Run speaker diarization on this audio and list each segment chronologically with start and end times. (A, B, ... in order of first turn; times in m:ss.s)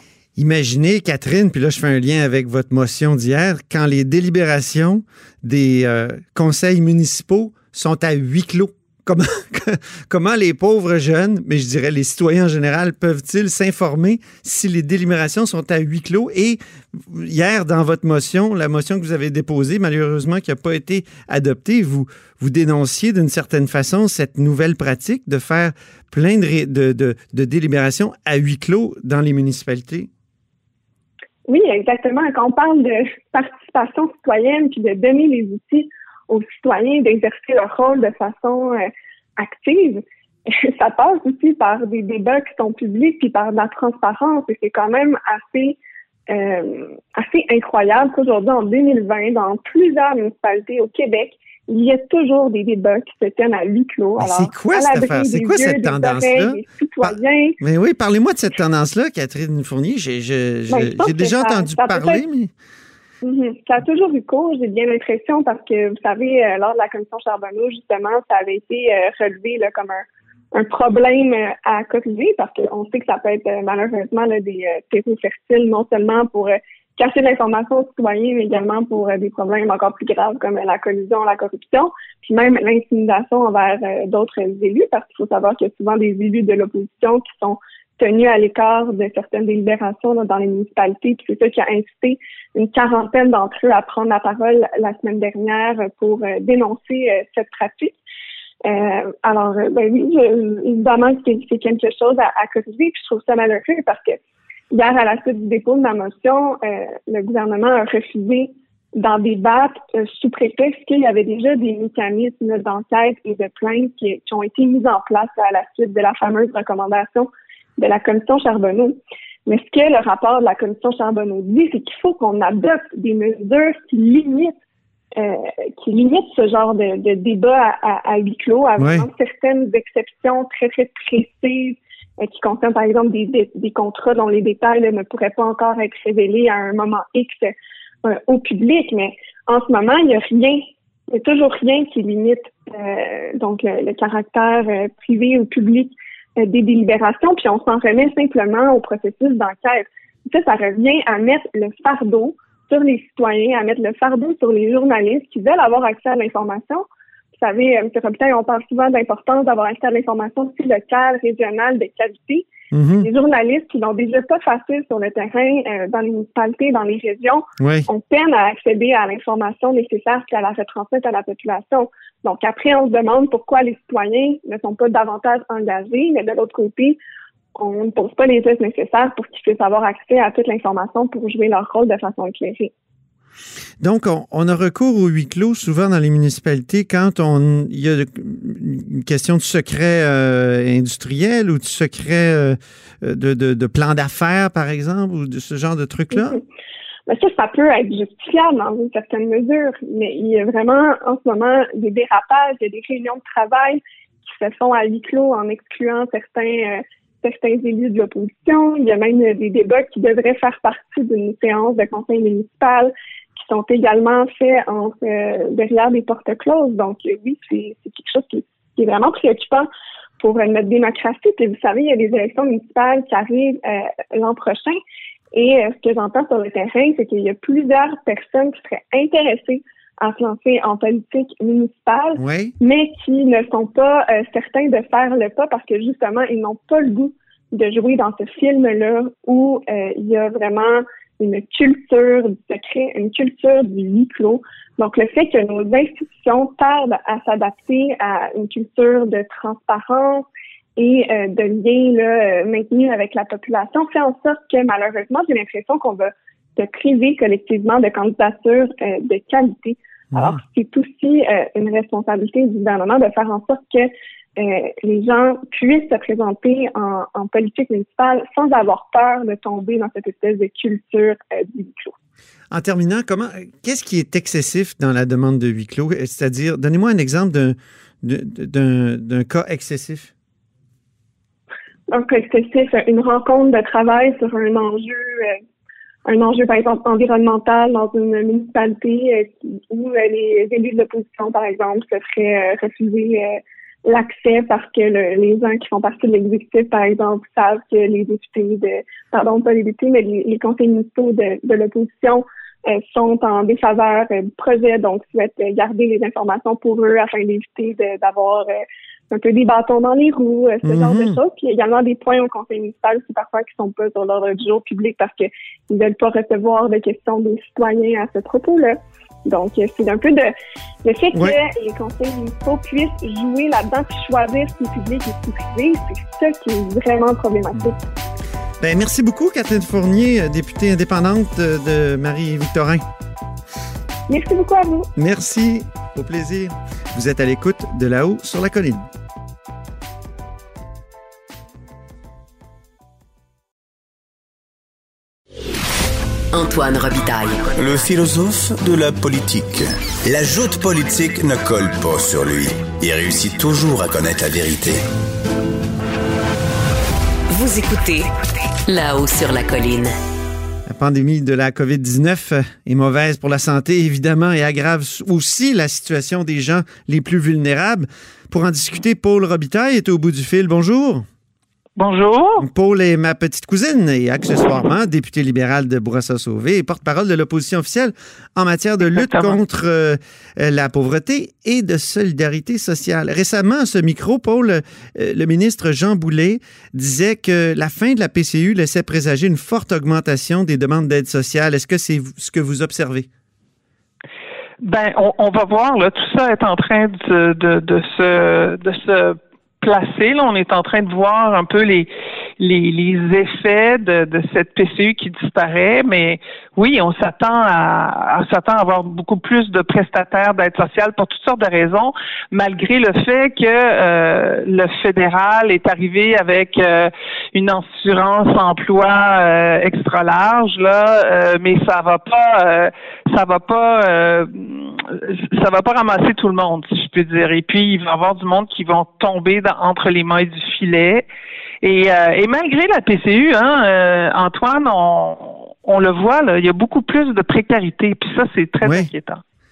0:00.4-0:30.1 A
0:31.5-0:45.8 B
0:46.3-0:57.6 B
0:54.2-1:02.5 A
1:00.7-1:02.2 B
1:03.2-1:38.0 B
1:38.6-1:44.2 B
1:44.7-2:04.5 B
2:05.2-2:36.8 B
2:08.8-2:09.1 A
2:37.4-2:57.0 B
2:42.7-2:43.1 A
2:47.6-2:47.9 A
2:57.5-3:02.7 B
3:03.8-3:16.4 A
3:16.1-3:16.4 B
3:17.1-3:39.7 B
3:40.2-3:44.8 B
3:45.3-4:10.2 B
3:52.2-3:52.5 A
4:10.8-4:32.0 B
4:20.1-4:20.4 A
4:32.5-4:40.1 A
4:41.9-4:45.4 B
4:46.0-5:20.3 B
5:10.6-5:11.2 A
5:20.8-5:27.8 B
5:28.6-5:32.8 A
5:34.1-5:34.9 B
5:35.0-5:38.9 A
5:46.3-5:47.7 C
5:47.6-5:54.8 D
5:57.3-5:58.1 C
5:58.6-5:59.9 C
6:00.6-6:11.1 A
6:11.8-6:12.4 E
6:12.4-6:33.1 A
6:18.9-6:19.4 E
6:34.6-7:11.0 E
7:11.6-7:19.2 E
7:18.6-7:18.9 A